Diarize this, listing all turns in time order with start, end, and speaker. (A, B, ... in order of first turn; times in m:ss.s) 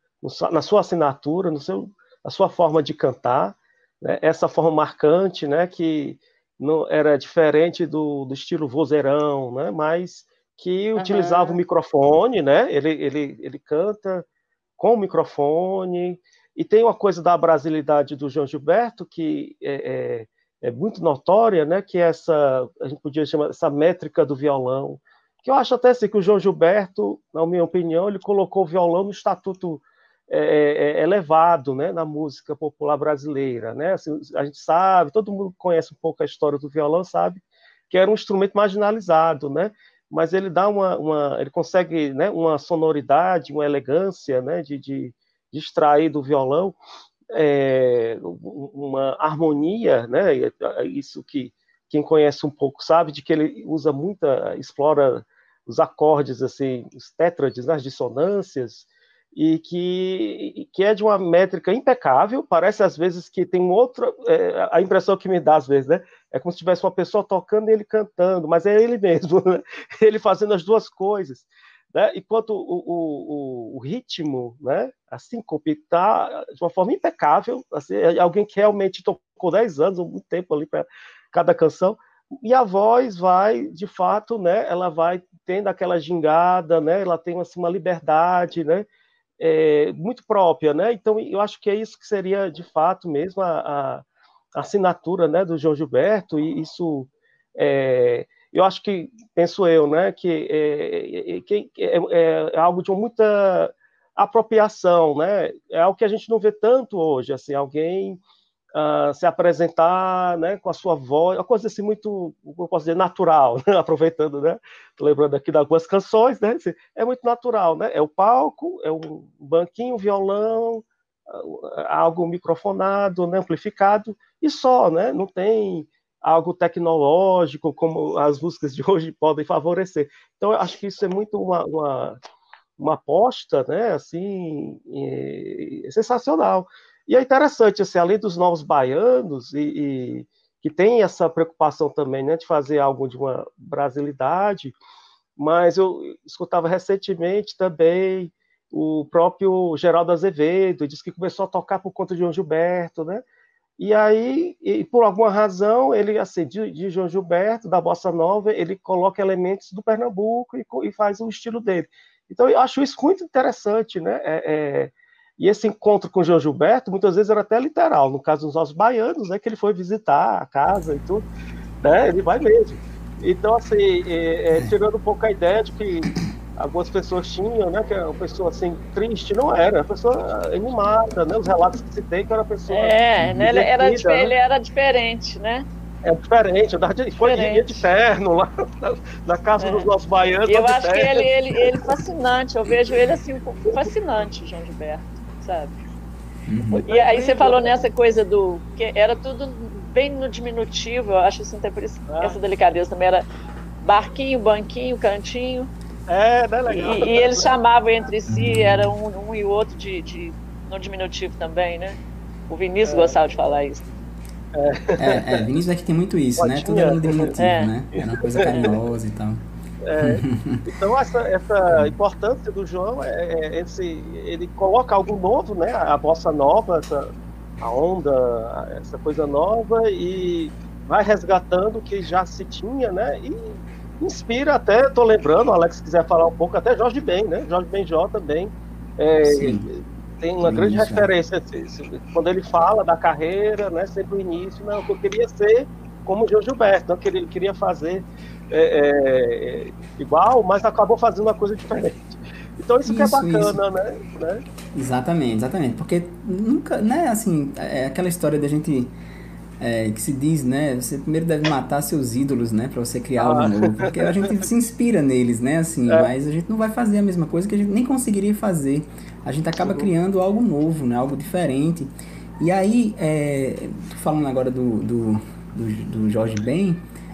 0:00.2-0:14.2 A
0:11.0-0:11.6 B
0:14.8-0:46.8 A
0:47.3-1:28.9 A
1:29.4-1:34.0 A
1:34.6-1:48.2 A
1:48.8-2:12.2 A
2:12.8-2:24.8 A
2:25.4-2:33.2 A
2:33.8-2:51.2 A
2:51.8-3:04.3 A
3:02.7-3:05.7 B
3:06.0-3:11.8 A
3:07.2-3:07.9 B
3:09.6-3:09.9 B
3:10.5-3:15.8 B
3:16.5-3:16.8 C
3:16.7-3:17.8 A
3:16.9-3:23.2 B
3:22.1-3:22.4 A
3:23.8-3:25.7 B
3:26.1-3:27.5 A
3:26.7-3:32.0 B
3:32.5-3:33.9 B
3:32.8-3:33.2 A
3:34.6-3:35.5 A
3:35.0-3:39.4 C
3:36.4-3:37.4 A
3:37.4-3:37.7 B
3:37.9-3:38.8 A
3:39.8-3:47.1 A
3:40.0-3:40.7 C
3:47.6-4:14.4 A
3:59.2-3:59.7 C
4:00.4-4:01.1 C
4:12.9-4:13.6 C
4:14.8-4:18.9 C
4:19.6-4:36.8 C
4:23.2-4:24.4 A
4:29.6-4:29.9 A